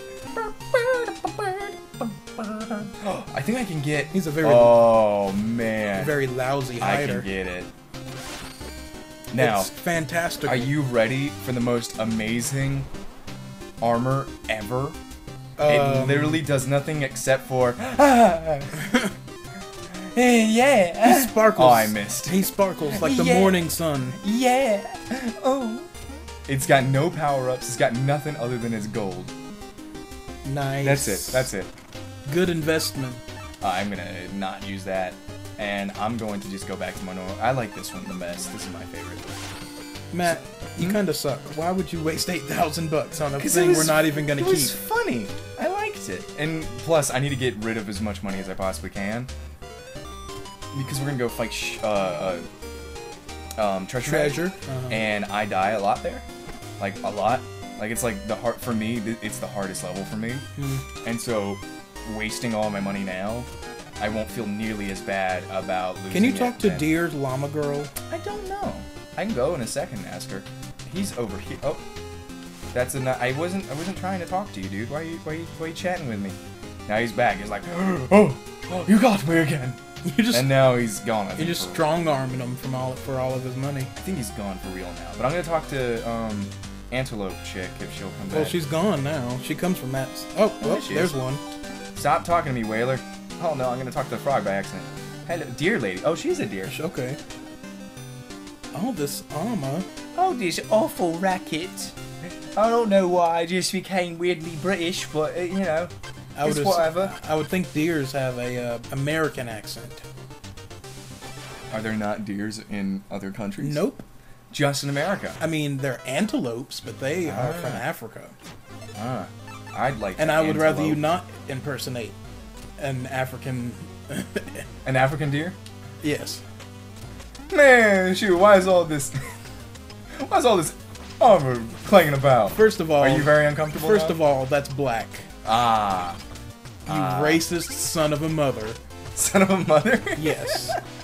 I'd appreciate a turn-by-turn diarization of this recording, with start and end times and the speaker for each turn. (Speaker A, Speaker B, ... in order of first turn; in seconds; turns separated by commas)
Speaker A: 0.3-6.2, Speaker B: 4.1-4.9, Speaker B: 6.0-7.3, Speaker A: 6.8-7.7, Speaker A: 9.3-9.7, Speaker B: 9.4-10.7, Speaker A: 10.4-12.9, Speaker A: 13.8-15.0, Speaker B: 15.6-16.4, Speaker A: 15.7-19.0, Speaker A: 19.9-25.9, Speaker B: 21.0-24.2, Speaker A: 26.5-29.3, Speaker B: 30.4-31.5, Speaker A: 30.8-31.7, Speaker B: 32.3-33.2, Speaker A: 33.6-39.2, Speaker B: 40.1-44.7, Speaker A: 40.2-41.0, Speaker A: 43.4-49.3, Speaker A: 50.7-52.5, Speaker A: 53.6-56.2, Speaker B: 54.0-55.0, Speaker A: 56.8-60.5, Speaker B: 60.6-60.9, Speaker A: 61.0-63.5, Speaker A: 64.0-66.9, Speaker B: 66.1-67.9, Speaker A: 68.1-71.8, Speaker A: 72.7-81.8, Speaker B: 80.0-80.5, Speaker B: 81.4-83.9, Speaker A: 84.0-88.6, Speaker B: 88.3-91.4, Speaker A: 90.6-91.2, Speaker A: 92.0-96.8, Speaker B: 96.7-97.2, Speaker B: 98.7-99.9, Speaker A: 100.2-105.9, Speaker B: 106.4-110.0, Speaker A: 106.4-107.2, Speaker A: 111.7-113.8, Speaker B: 113.6-114.0, Speaker A: 114.5-115.4, Speaker B: 115.4-118.4, Speaker A: 117.2-117.9, Speaker A: 119.0-121.0, Speaker B: 120.2-122.2, Speaker B: 122.8-124.7, Speaker A: 124.8-125.6, Speaker B: 126.0-126.4, Speaker A: 127.5-129.4, Speaker A: 130.2-134.2, Speaker B: 132.5-135.2, Speaker A: 135.4-136.2, Speaker A: 136.9-137.4, Speaker B: 136.9-138.8, Speaker A: 139.1-140.8, Speaker B: 140.2-140.8